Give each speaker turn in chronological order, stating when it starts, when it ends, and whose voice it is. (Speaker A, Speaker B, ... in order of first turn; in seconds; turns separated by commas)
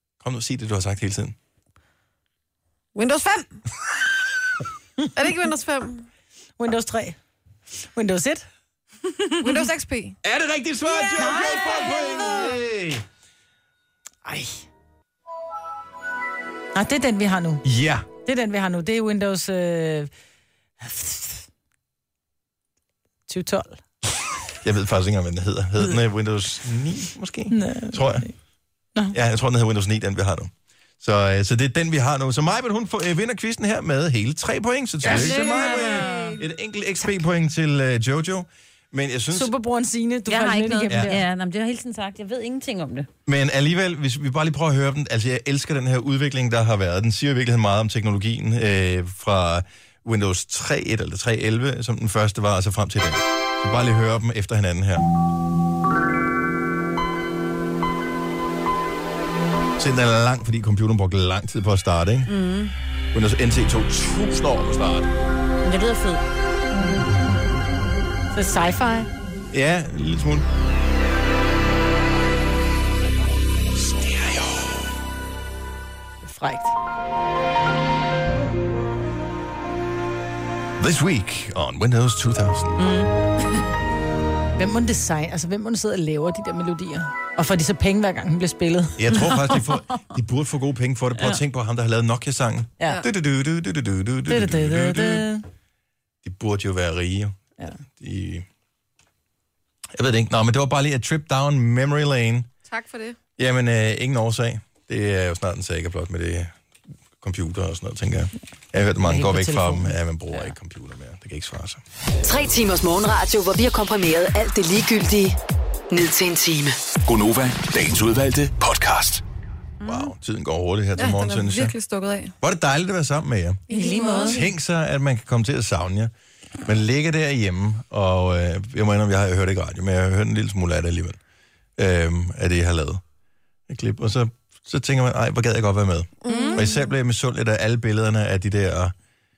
Speaker A: 0.2-1.4, Speaker B: 2.9-3.5, Speaker B: 5.1-6.1, Speaker C: 6.6-7.2, Speaker C: 7.9-8.4, Speaker B: 9.4-10.2, Speaker A: 10.2-13.0, Speaker C: 11.2-12.5, Speaker C: 14.2-14.7, Speaker C: 16.7-17.6, Speaker A: 17.6-18.1, Speaker C: 18.2-20.1, Speaker C: 20.8-21.4, Speaker C: 23.3-23.8, Speaker A: 24.6-28.3, Speaker C: 27.5-28.3, Speaker A: 29.1-39.5, Speaker C: 35.0-36.3, Speaker D: 35.1-36.3, Speaker C: 39.3-41.2, Speaker D: 40.3-43.1, Speaker A: 40.9-41.2, Speaker A: 43.2-55.0, Speaker A: 59.8-62.3, Speaker D: 62.3-62.7, Speaker A: 63.1-65.1, Speaker D: 65.6-66.2, Speaker C: 68.3-69.1, Speaker A: 69.5-70.5, Speaker A: 73.7-74.8, Speaker C: 76.2-76.7, Speaker A: 80.8-82.8, Speaker D: 82.8-83.1, Speaker C: 84.6-89.3, Speaker A: 89.0-95.3, Speaker C: 94.3-95.4, Speaker A: 96.2-97.3, Speaker A: 98.0-98.5, Speaker A: 99.9-102.5, Speaker B: 102.7-103.2, Speaker A: 103.4-106.5, Speaker A: 107.2-111.8, Speaker C: 109.0-110.0, Speaker E: 112.2-115.4, Speaker E: 115.9-116.8, Speaker F: 117.0-119.2, Speaker D: 119.8-120.1, Speaker A: 119.8-121.7, Speaker B: 121.0-122.3, Speaker A: 122.4-126.1, Speaker B: 123.7-124.4, Speaker C: 123.7-124.3, Speaker D: 123.8-124.4, Speaker A: 126.6-131.2, Speaker A: 131.8-133.0, Speaker A: 133.7-138.9, Speaker B: 136.2-136.8, Speaker D: 136.3-136.6